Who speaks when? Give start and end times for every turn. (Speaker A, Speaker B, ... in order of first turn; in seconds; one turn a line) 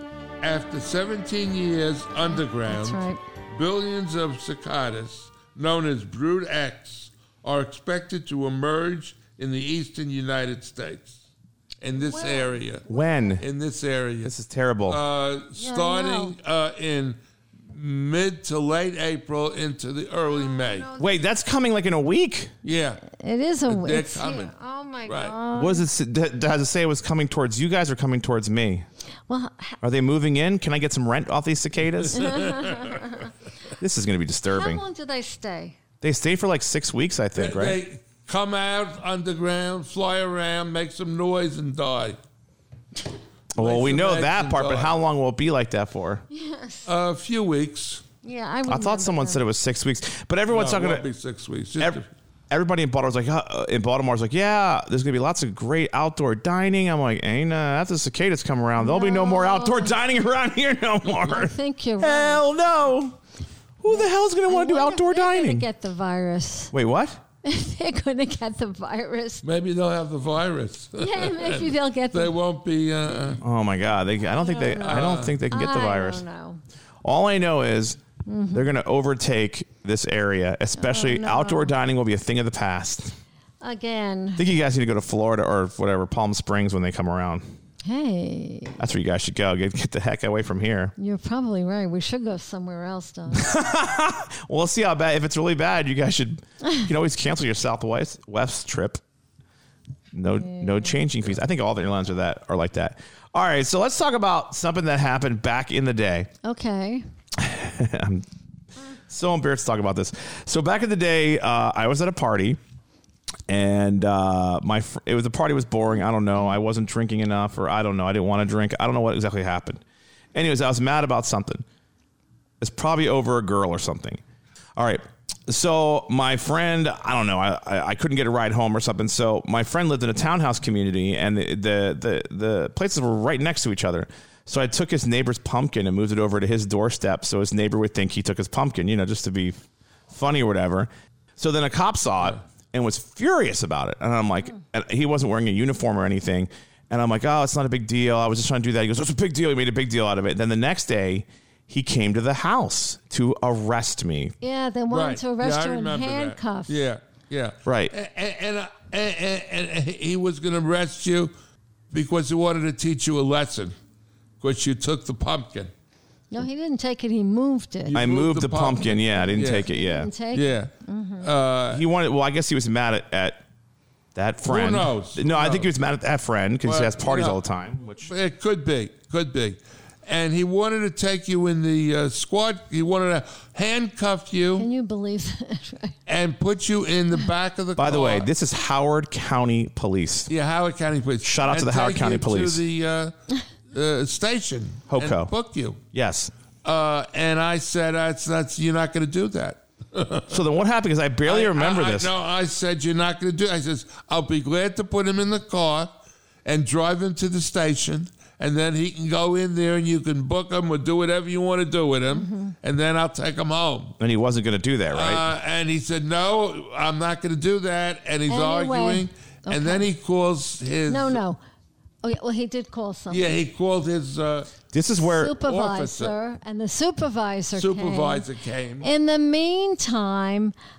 Speaker A: 0.4-11.2
Speaker B: 2.3-3.2
Speaker A: 11.8-12.8
Speaker B: 11.9-13.3
Speaker C: 12.9-13.4
Speaker A: 13.4-14.3
Speaker C: 14.2-15.0
Speaker A: 14.9-17.2
Speaker B: 15.6-16.4
Speaker A: 17.7-20.9
Speaker B: 20.2-21.2
Speaker C: 21.0-22.5
Speaker A: 22.6-23.0
Speaker B: 23.0-25.9
Speaker A: 23.7-24.5
Speaker A: 25.1-25.4
Speaker C: 25.5-28.9
Speaker B: 29.3-29.8
Speaker C: 29.8-32.5
Speaker B: 32.1-33.3
Speaker A: 32.2-33.1
Speaker C: 33.8-34.8
Speaker B: 34.5-35.8
Speaker C: 36.0-37.8
Speaker A: 37.3-42.2
Speaker C: 43.5-46.2
Speaker A: 43.5-45.0
Speaker B: 46.3-46.9
Speaker A: 46.9-48.0
Speaker B: 48.2-49.5
Speaker C: 48.7-51.0
Speaker A: 50.5-52.1
Speaker C: 51.8-63.2
Speaker B: 58.8-60.0
Speaker B: 61.2-62.4
Speaker C: 63.8-65.7
Speaker B: 63.9-66.7
Speaker C: 66.7-67.2
Speaker B: 67.4-69.4
Speaker A: 69.4-73.4
Speaker B: 71.0-72.3
Speaker C: 73.4-76.2
Speaker B: 74.2-76.6
Speaker A: 74.8-75.4
Speaker C: 77.0-78.0
Speaker B: 78.2-78.7
Speaker C: 78.5-83.2
Speaker B: 80.8-81.7
Speaker B: 83.6-84.5
Speaker C: 84.4-87.5
Speaker B: 87.8-88.8
Speaker C: 88.8-90.9
Speaker B: 91.0-93.5
Speaker C: 93.3-99.0
Speaker C: 100.1-106.3
Speaker B: 100.3-101.0
Speaker B: 106.4-107.0
Speaker C: 107.4-108.2
Speaker C: 109.1-112.6
Speaker C: 113.5-119.8
Speaker B: 116.3-116.6
Speaker C: 120.3-121.6
Speaker C: 122.6-124.2
Speaker C: 124.8-154.3
Speaker B: 154.4-156.9
Speaker A: 154.9-161.3
Speaker C: 157.7-157.9
Speaker A: 161.9-163.8
Speaker A: 164.4-165.7
Speaker B: 166.3-168.0
Speaker A: 167.8-169.7
Speaker C: 167.9-170.1
Speaker B: 169.2-171.3
Speaker A: 170.3-171.8
Speaker C: 171.7-173.4
Speaker C: 174.2-178.1
Speaker A: 174.4-175.7
Speaker A: 176.6-177.4
Speaker A: 178.0-184.7
Speaker B: 184.5-186.0
Speaker A: 186.1-188.3
Speaker C: 187.8-190.3
Speaker A: 190.3-193.1
Speaker C: 191.2-192.6
Speaker A: 193.7-195.8
Speaker C: 194.9-195.3
Speaker C: 195.9-196.3
Speaker A: 196.6-200.4
Speaker C: 200.3-202.1
Speaker A: 201.2-205.9
Speaker A: 206.4-214.0
Speaker B: 212.1-212.6
Speaker C: 214.0-215.2
Speaker A: 214.9-221.2
Speaker B: 218.3-219.9
Speaker B: 220.9-221.4
Speaker B: 222.0-223.4
Speaker A: 223.1-224.5
Speaker C: 224.7-225.4
Speaker B: 224.9-228.3
Speaker A: 225.4-226.2
Speaker A: 227.5-228.9
Speaker B: 228.8-230.5